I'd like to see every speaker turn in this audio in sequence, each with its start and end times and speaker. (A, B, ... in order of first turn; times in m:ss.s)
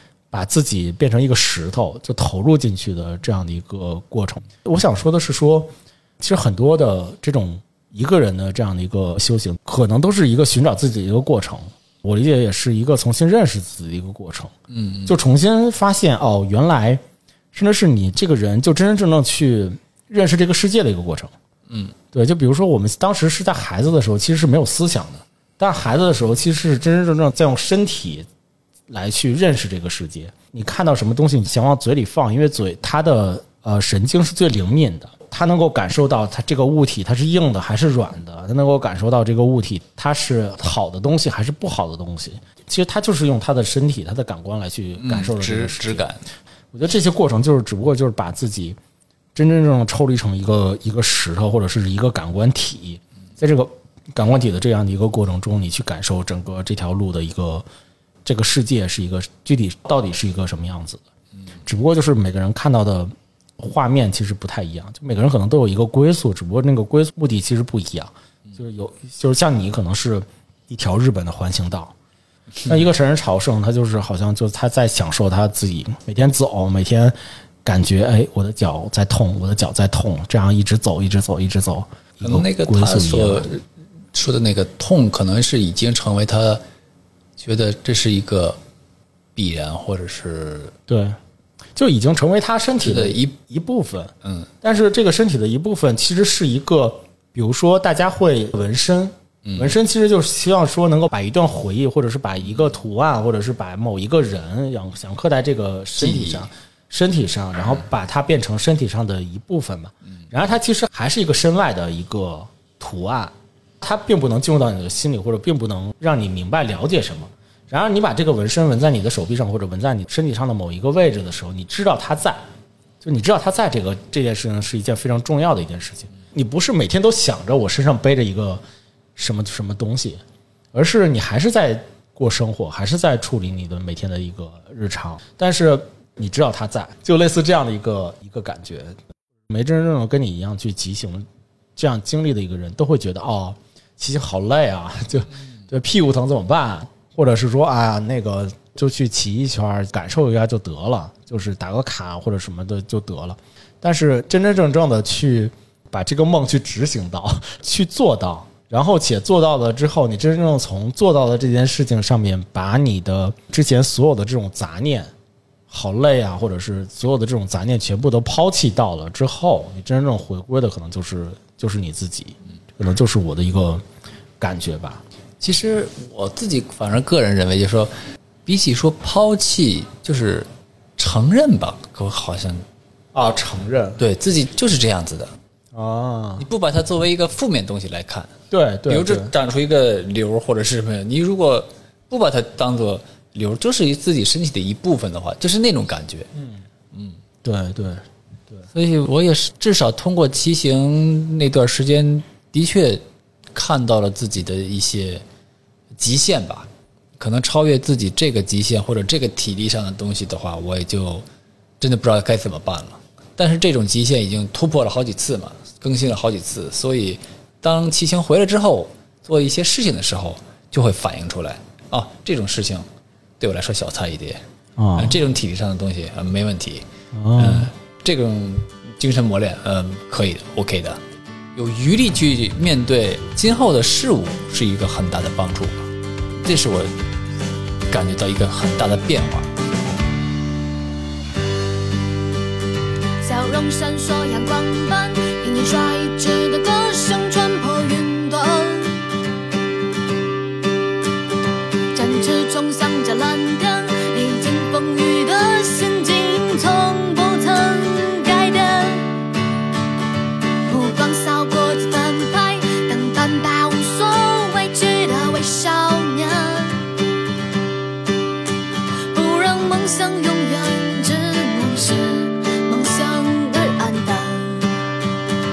0:00.3-0:14.5 A
0:14.7-0:15.2 B
0:15.1-0:17.0 A
0:17.5-0:21.3 A
0:21.7-0:21.9 B
0:22.1-0:28.3 A
0:28.9-0:46.1 A
0:45.0-0:46.2 B
0:46.7-0:48.8 A
0:49.4-0:57.7 A
0:58.2-1:01.0 A
1:01.6-1:11.9 A
1:12.7-1:23.5 A
1:22.2-1:26.6 B
1:27.4-1:28.6 B
1:29.4-1:30.7 B
1:30.9-1:31.2 A
1:31.8-2:02.4 A
1:32.8-1:33.3 B
1:39.4-1:39.7 B
1:46.0-1:46.5 B
2:03.0-2:08.6 A
2:09.2-2:10.2 A
2:10.7-2:19.0 A
2:19.5-2:45.1 A
2:45.7-2:53.8 A
2:54.4-2:55.0 A
2:55.4-2:57.9 B
2:58.5-3:02.6 B
3:03.1-3:04.0 A
3:04.0-3:05.3 B
3:05.7-3:06.5 A
3:06.4-3:08.3 B
3:08.5-3:09.3 A
3:08.9-3:16.3 B
3:16.9-3:17.2 B
3:17.4-3:18.7 A
3:18.7-3:25.2 B
3:26.0-3:31.2 B
3:31.8-3:42.9 B
3:43.4-3:44.4 B
3:44.8-3:45.2 A
3:45.0-3:46.8 B
3:47.2-3:47.7 A
3:47.4-3:51.0 B
3:51.6-3:55.9 B
3:56.4-3:56.9 B
3:57.9-3:59.5 B
4:03.2-4:09.1 C
4:11.9-4:19.2 C
4:20.7-4:26.9 C
4:29.1-4:34.8 C